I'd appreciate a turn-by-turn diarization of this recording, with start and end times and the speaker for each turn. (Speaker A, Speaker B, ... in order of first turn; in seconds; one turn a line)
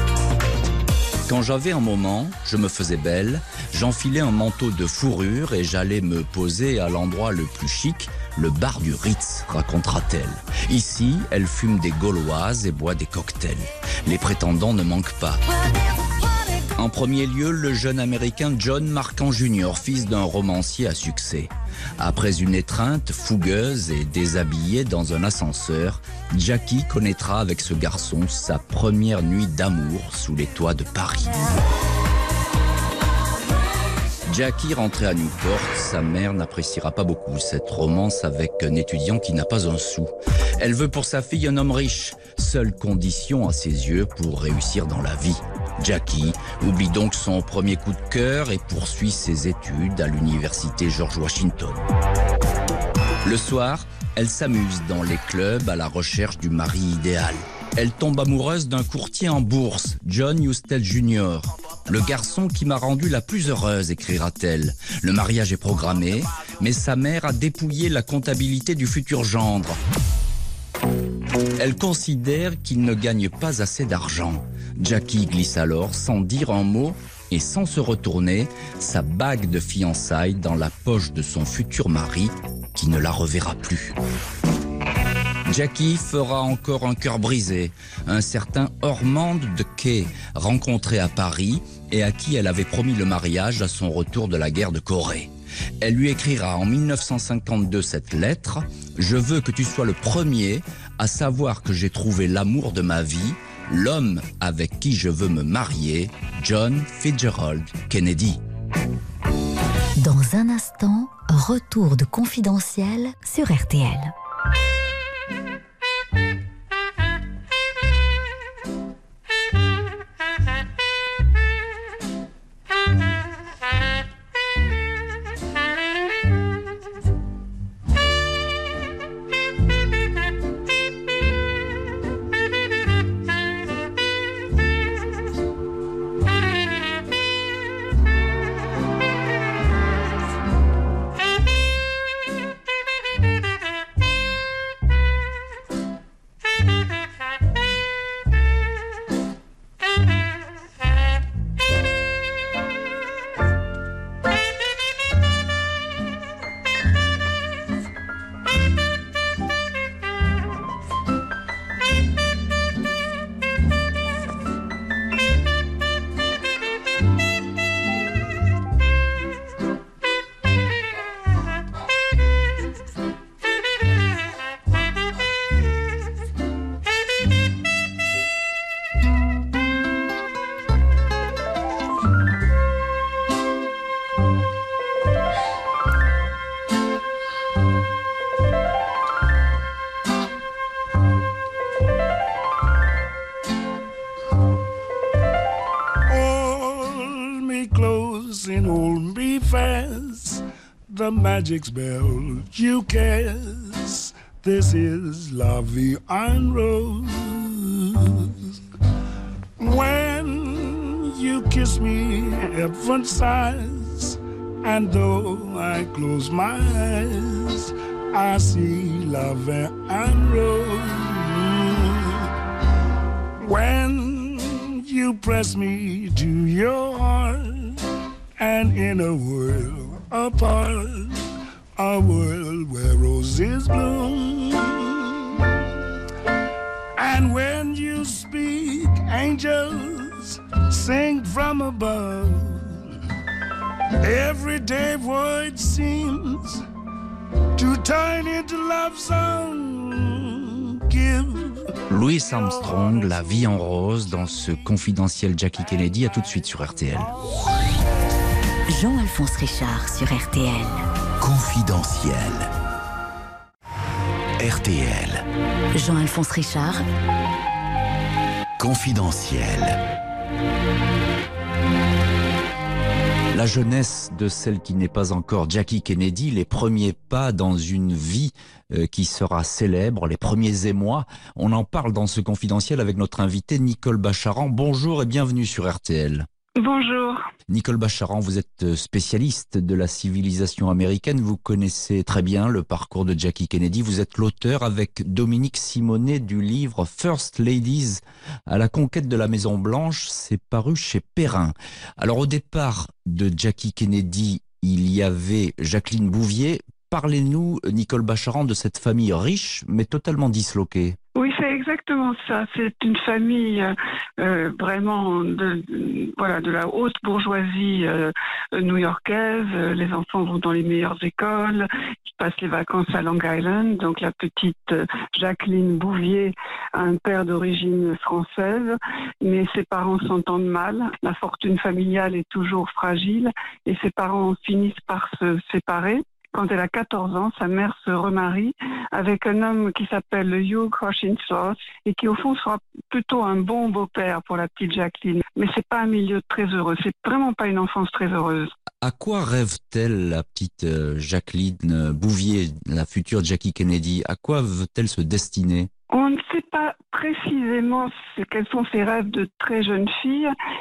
Speaker A: 1.2-15.4
Speaker A: 16.7-31.6
Speaker A: 34.3-51.8
Speaker A: 53.2-69.8
Speaker A: 71.6-84.0
Speaker A: 85.5-108.4
Speaker B: 110.0-114.1
Speaker C: 196.1-208.6
Speaker C: 209.6-222.3
Speaker C: 223.4-227.8
Speaker C: 228.4-235.5
Speaker C: 237.0-242.8
Speaker C: 244.0-246.6
Speaker C: 247.6-251.7
Speaker A: 251.9-257.1
Speaker C: 252.3-254.6
Speaker B: 258.7-260.9
Speaker D: 261.2-262.5
Speaker D: 264.4-265.2
Speaker B: 265.7-266.8
Speaker D: 268.6-269.8
Speaker A: 273.3-286.3
Speaker E: 286.6-287.2
Speaker A: 287.5-311.0
Speaker E: 311.1-348.5
Speaker A: 348.8-355.7
Speaker E: 355.9-360.3